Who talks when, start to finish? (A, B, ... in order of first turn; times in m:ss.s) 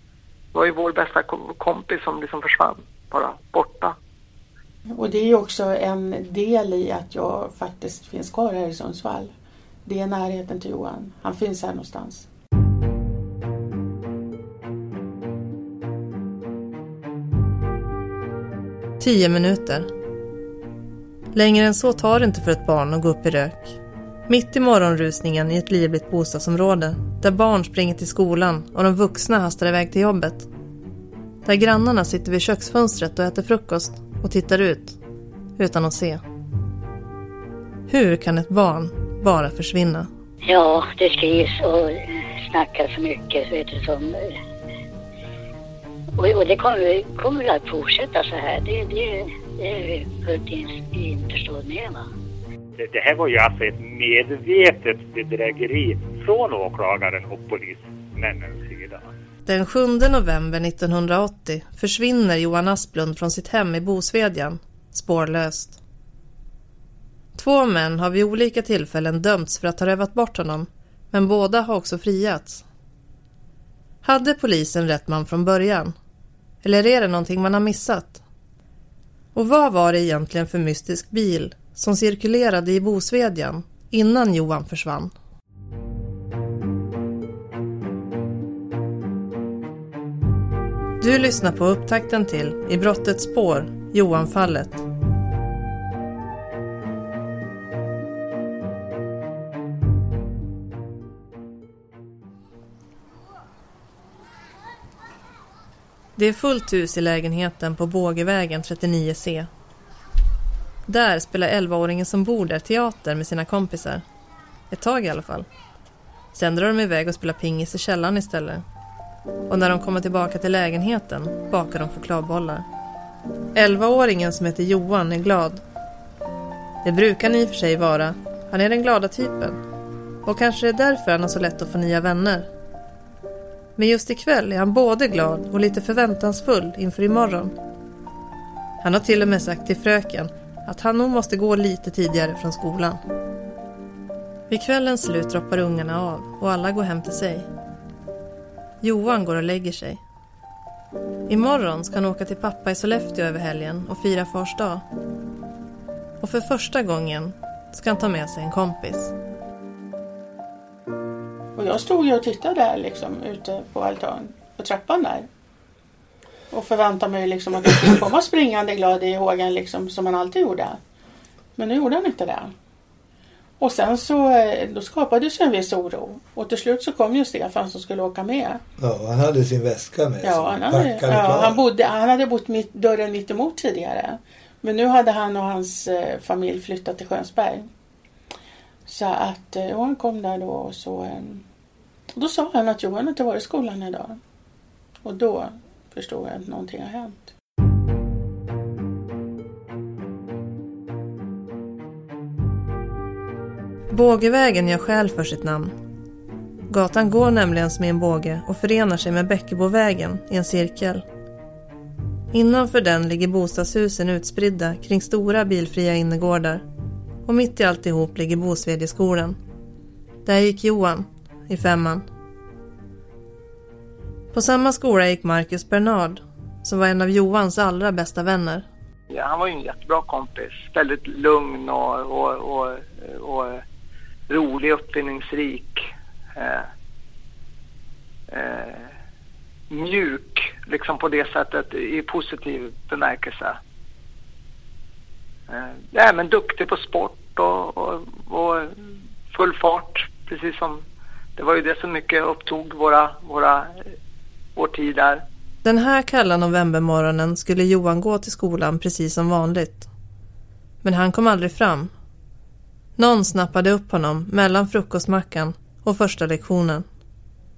0:00.5-0:04.0 A
0:04.9-0:09.3 B
0:09.9-0:12.3 B
0:19.0-0:19.9 C
0:21.3-0:30.5 C
0:31.4-0:35.0 C
0:35.6-0:36.2 C
0:37.9-0:40.1 C
0:40.4-0:42.0 D
0:42.5-0:44.2 D
0:46.2-0:52.0 D
0:52.8-0:59.0 E
0:59.4-1:05.8 C
1:07.4-1:12.6 C
1:14.0-1:15.9 C
1:16.6-1:18.2 C
1:19.3-1:25.1 C
1:31.0-1:34.8 C
1:46.2-1:49.5 C
1:50.9-1:54.0 C
1:54.7-1:55.5 C
1:56.3-1:58.6 C
1:59.5-2:02.6 C
2:03.6-2:05.6 C
2:06.8-2:09.6 C
2:10.2-2:12.5 C
2:13.8-2:17.5 C
2:18.8-2:23.0 C
2:24.5-2:27.5 C
2:28.8-2:30.0 C
2:31.3-2:34.8 C
2:36.2-2:39.1 C
2:41.6-2:45.3 B
2:46.5-2:50.8 B
2:51.6-2:52.5 B
2:53.6-2:58.6 B
2:58.8-3:01.6 F
3:00.2-3:07.7 B
3:08.9-3:11.4 B
3:12.2-3:14.2 B
3:15.0-3:17.3 B
3:23.9-3:25.7 C
3:26.7-3:31.0 C
3:32.3-3:36.6 C
3:37.3-3:39.4 C
3:40.2-3:42.0 C
3:44.3-3:48.7 C
3:49.1-3:53.6 A
3:54.3-3:55.8 A
3:56.4-3:56.6 A
3:58.3-3:58.8 A
3:59.7-4:03.6 A
4:05.5-4:08.6 A
4:09.3-4:10.8 A
4:11.4-4:13.6 A
4:14.6-4:15.2 A
4:15.6-4:19.9 C
4:20.8-4:21.9 C
4:23.0-4:26.8 C